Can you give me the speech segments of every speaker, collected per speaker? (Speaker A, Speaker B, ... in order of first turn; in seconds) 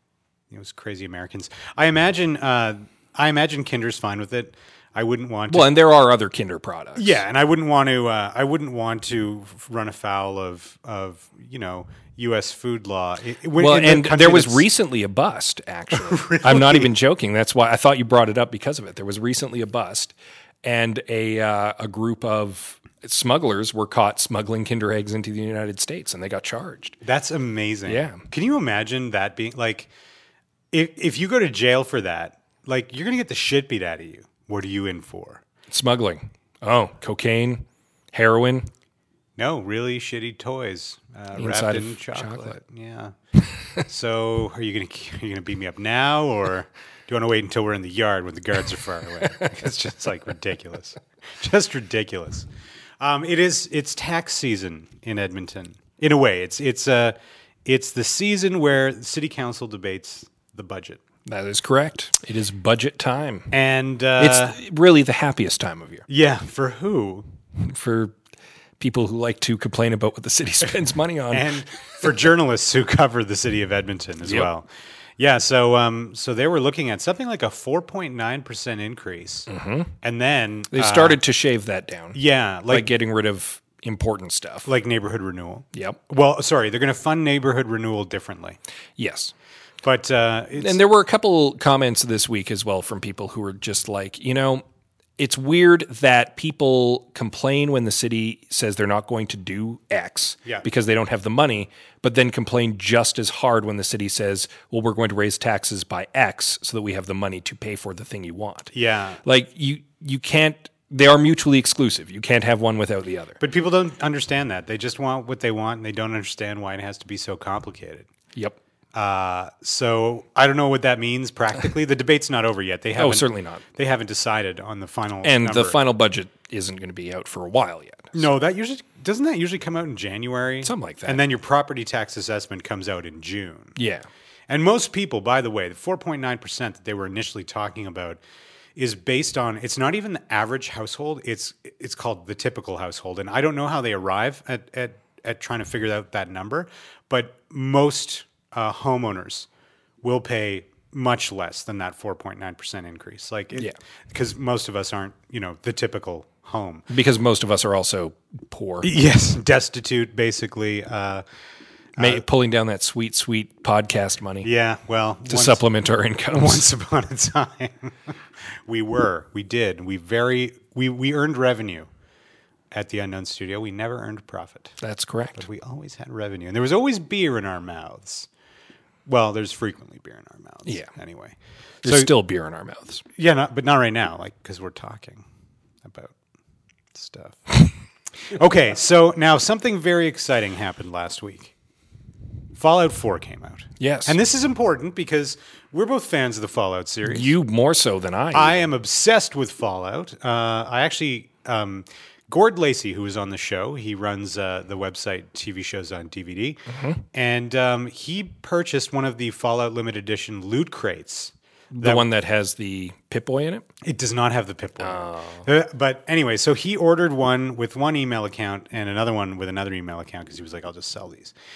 Speaker A: 0.5-5.7, 7.0-14.7, 15.9-16.9, 27.0-29.9, 30.7-35.4, 39.4-43.1, 43.8-52.5, 53.0-61.0, 63.5-64.6, 66.1-67.2, 71.3-79.5, 80.0-81.2, 82.1-82.9, 84.6-88.6, 89.8-90.8, 108.7-109.2, 113.4-118.1, 118.9-125.8, 128.1-133.8, 134.5-138.2, 138.8-149.5, 150.0-156.9, 158.8-161.2, 161.9-162.2, 164.4-165.6, 166.3-168.1, 168.7-171.9, 172.7-174.8, 175.3-178.3, 179.1-182.1, 183.1-185.2, 185.8-186.1, 186.9-187.7, 188.3-191.5, 192.5-197.3, 198.3-212.1, 213.8-221.3
Speaker B: 5.5-7.2, 13.6-27.0, 27.9-28.2, 35.7-38.7, 41.4-42.6, 61.2-63.5, 64.2-66.0, 67.6-68.1, 68.8-71.5, 79.5-79.9, 80.7-82.2, 82.7-84.7, 85.7-86.0, 89.0-89.3, 90.6-94.6, 95.2-108.7, 109.2-113.4, 123.0-123.6, 125.2-128.3, 130.6-131.2, 133.8-134.1, 156.9-158.9, 162.0-164.5, 165.3-166.6, 174.8-175.4, 181.8-183.0, 193.8-194.2, 197.0-198.7, 206.7-207.0, 211.7-213.7, 214.8-215.5